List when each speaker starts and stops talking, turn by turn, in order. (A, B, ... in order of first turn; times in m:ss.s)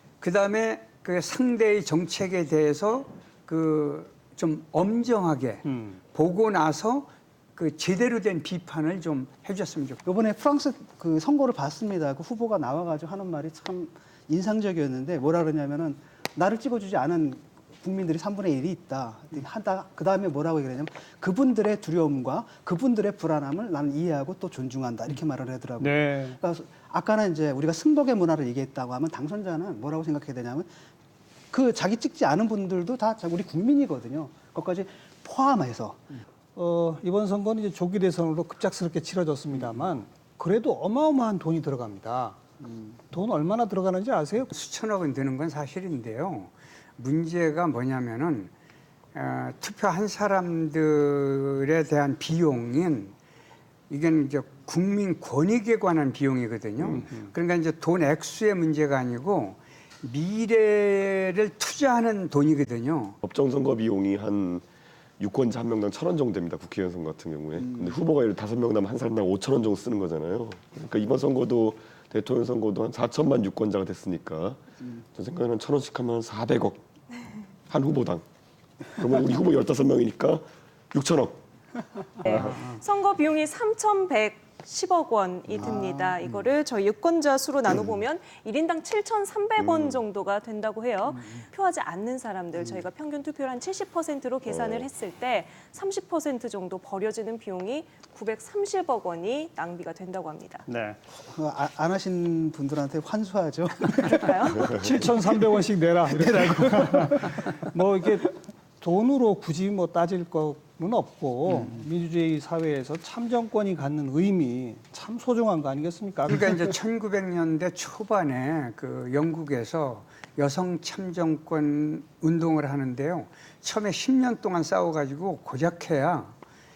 0:00.2-0:10.0 A
0:05.6-0:06.0 B
0:10.0-0:30.7 C
0:25.8-0:26.4 B
0:31.5-0:36.0 C
0:36.5-0:42.4 B
0:42.6-0:42.9 C
0:43.1-0:44.5 B
0:44.5-0:48.5 A
0:49.1-0:53.1 A
0:53.9-1:03.2 A
1:03.2-1:04.6 D
1:05.2-1:14.6 D
1:15.1-1:16.8 D
1:17.7-1:18.2 D
1:18.9-1:21.4 D
1:22.2-1:40.6 E
1:25.6-1:26.2 C
1:29.6-1:30.0 D
1:34.4-1:34.9 D
1:40.7-1:41.0 B
1:41.2-1:47.4 C
1:44.0-1:44.7 E
1:44.7-1:56.7 B
1:56.3-2:06.3 A